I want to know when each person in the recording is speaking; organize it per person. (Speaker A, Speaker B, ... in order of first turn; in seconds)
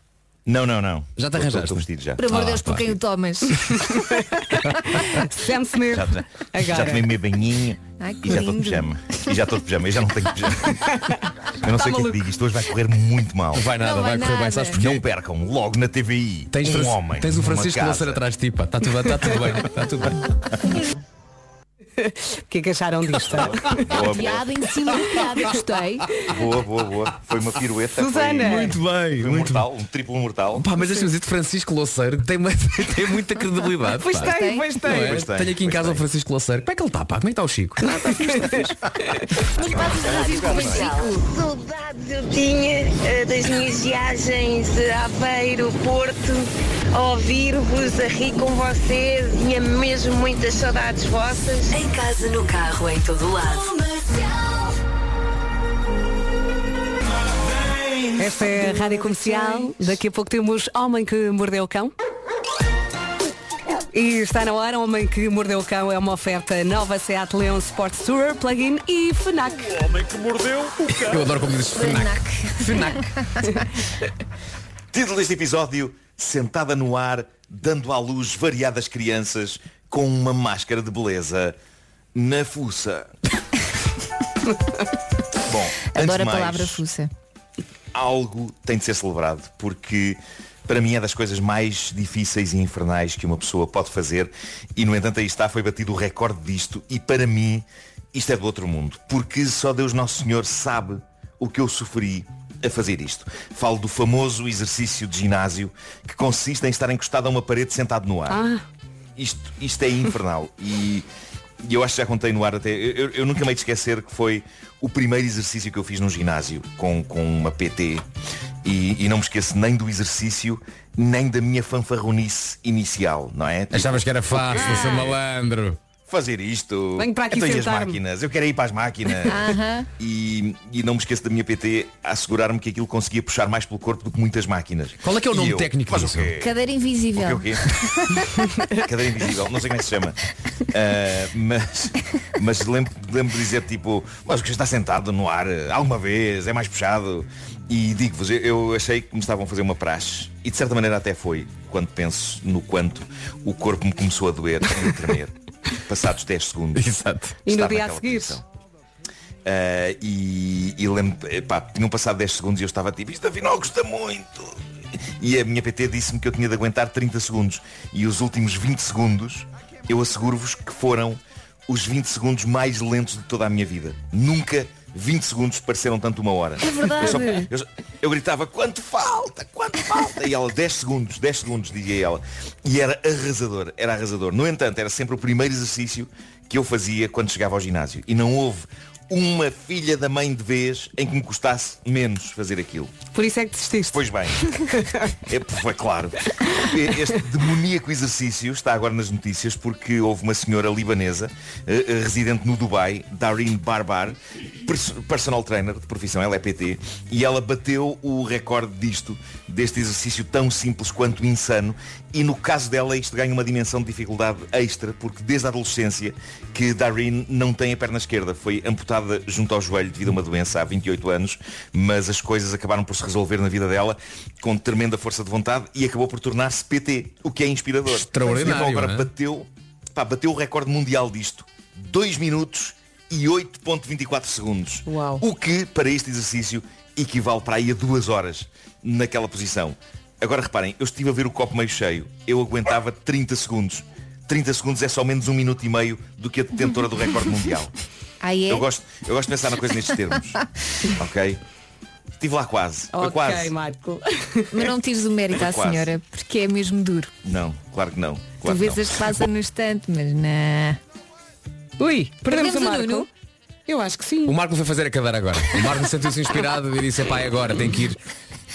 Speaker A: 0.5-2.2, 5.9-11.0, 11.6-13.7, 14.7-18.2, 23.2-24.7, 26.3-30.7, 34.8-36.0, 39.6-40.9, 74.9-81.6, 82.2-83.1, 85.5-86.8, 87.9-108.4, 109.2-111.1, 111.6-118.0, 118.6-125.2, 126.0-136.6, 137.1-137.6, 138.8-140.2, 140.7-156.9, 157.5-158.4, 159.4-164.6, 165.1-192.9, 193.9-247.7, 248.5-251.4, 252.2-253.6, 255.3-255.9, 257.2-259.2
Speaker B: 1.2-2.9, 13.6-15.0, 16.5-20.3, 28.4-29.6, 30.6-38.8, 70.9-73.1, 123.7-125.8, 135.0-136.3, 156.8-157.4, 227.9-229.1, 264.3-268.0
Speaker C: 2.2-3.9, 8.0-9.1, 13.8-14.8, 23.9-26.1, 34.2-34.7, 39.6-41.3, 71.7-73.6, 85.9-87.1, 129.3-129.9, 136.4-138.5, 248.2-248.7, 254.5-257.1, 258.4-260.8, 262.3-263.1
Speaker D: 3.9-7.1, 10.8-12.2, 22.0-23.9, 28.0-28.8, 34.0-35.2, 38.0-39.2, 58.2-61.9, 63.9-69.8, 108.3-108.6, 124.5-125.1, 127.0-128.0, 157.5-158.4, 176.7-177.5, 193.1-194.0, 194.7-195.1, 234.8-235.2, 252.9-254.6, 261.8-263.1, 263.7-264.4
Speaker E: 40.0-41.1, 51.7-54.1
Speaker F: 41.1-51.7